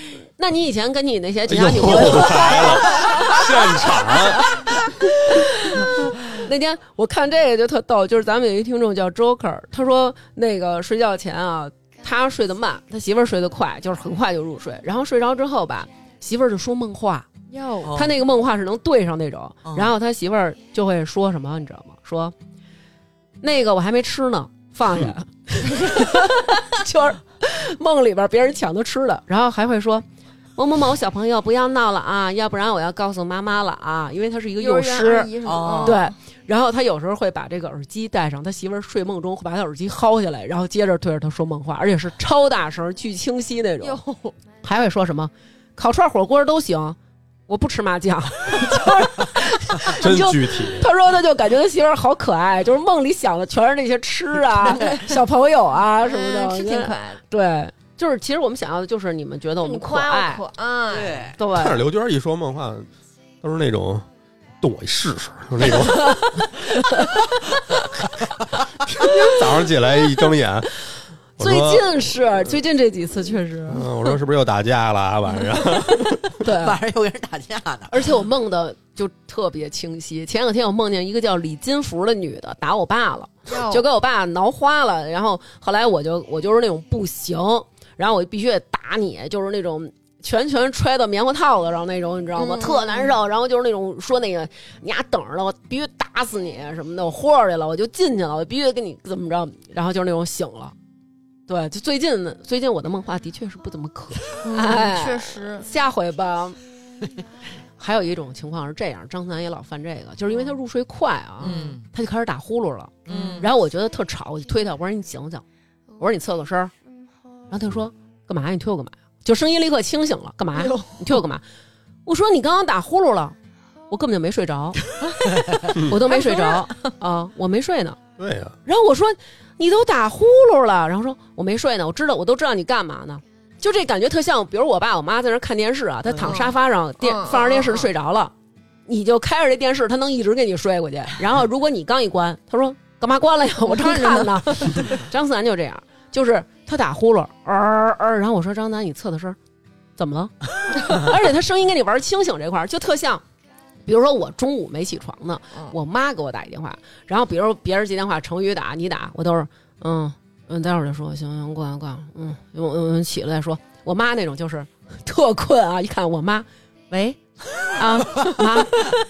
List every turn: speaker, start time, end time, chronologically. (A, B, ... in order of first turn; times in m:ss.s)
0:00.4-0:03.4 A
0:01.5-0:04.6 B
0:02.2-0:03.4 C
0:05.2-0:17.3 A
0:17.5-0:18.0 C
0:17.8-0:18.1 D
0:17.9-0:22.3 A
0:19.6-0:19.9 D
0:23.4-0:30.0 A
0:30.6-0:44.0 A
0:34.6-0:36.1 C
0:35.5-0:36.0 D
0:43.8-0:44.4 C
0:44.6-0:47.0 A
0:47.5-1:00.4 A
0:49.8-0:50.9 B
0:54.7-0:55.2 C
0:56.0-0:57.2 C
0:59.6-1:01.3 C
1:00.9-1:01.4 D
1:01.4-1:01.8 A
1:01.5-1:02.9 B
1:03.4-1:04.1 B
1:04.6-1:06.5 B
1:05.9-1:07.3 A
1:08.8-1:10.7 B
1:11.4-1:12.0 B
1:11.4-1:13.8 A
1:13.7-1:16.4 B
1:16.4-1:16.8 A
1:16.5-1:18.1 D
1:17.9-1:40.8 A
1:23.5-1:23.8 C
1:32.4-1:33.2 C
1:41.5-1:46.6 A
1:44.4-1:45.7 C
1:47.8-1:55.4 A
1:50.3-1:50.6 C
1:51.4-1:51.8 C
1:51.4-1:51.8 D
1:53.1-1:53.5 D
1:53.1-1:53.5 C
1:56.0-1:56.7 A
1:57.5-2:01.4 A
2:00.6-2:01.2 C
2:02.1-2:03.4 A
2:03.9-2:04.8 A
2:05.0-2:06.9 C
2:05.6-2:08.0 A
2:08.2-2:08.6 B
2:08.6-2:18.3 A
2:16.2-2:17.9 C
2:18.9-2:29.4 A
2:23.6-2:25.0 C
2:30.0-2:33.2 A
2:33.9-2:47.2 A
2:47.8-2:48.8 A